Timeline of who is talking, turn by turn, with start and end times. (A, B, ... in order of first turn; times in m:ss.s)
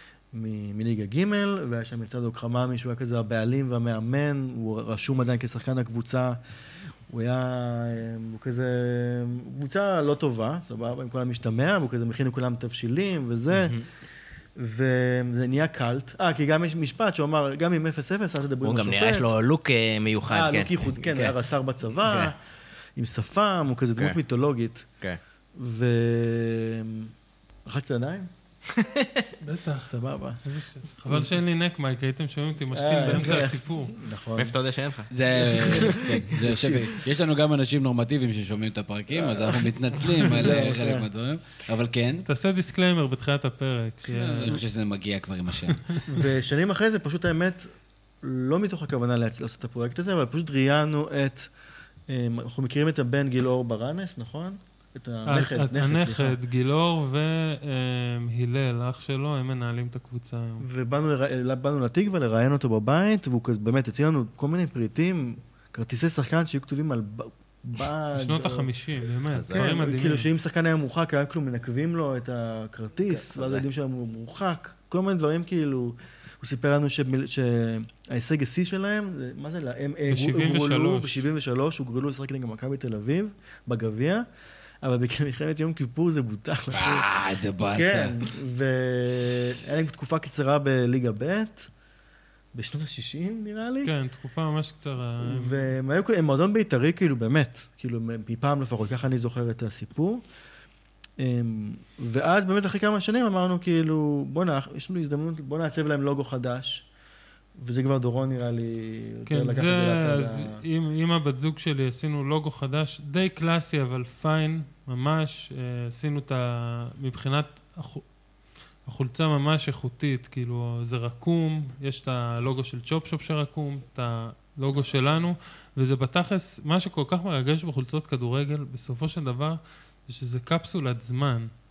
0:00.3-0:06.4 A
0:07.1-0:13.8 A
0:13.5-0:13.8 B
0:14.6-0:19.3 A
0:18.6-0:21.4 B
0:20.3-0:22.4 A
0:22.0-0:22.3 B
0:23.0-0:24.9 A
0:25.5-0:27.1 A
0:27.6-0:30.4 A
0:29.4-0:34.0 C
0:31.0-0:31.3 A
0:32.7-0:34.5 A
0:34.4-0:36.2 B
0:35.1-0:42.2 D
0:35.6-0:36.8 A
0:39.3-0:41.0 A
0:42.2-0:44.6 C
0:44.1-0:45.8 D
0:46.1-0:51.5 A
0:52.1-0:56.4 A
0:55.2-1:00.6 C
1:00.6-1:08.7 A
1:08.1-1:10.3 C
1:09.3-1:09.6 B
1:09.5-1:24.2 A
1:13.1-1:13.6 B
1:20.1-1:21.2 C
1:24.8-1:27.1 A
1:26.7-1:28.2 D
1:27.7-1:31.7 A
1:32.5-1:33.9 A
1:33.8-1:35.7 C
1:35.2-1:40.2 A
1:41.2-1:46.9 A
1:47.6-1:50.6 A
1:49.3-1:58.0 C
1:58.8-2:11.5 C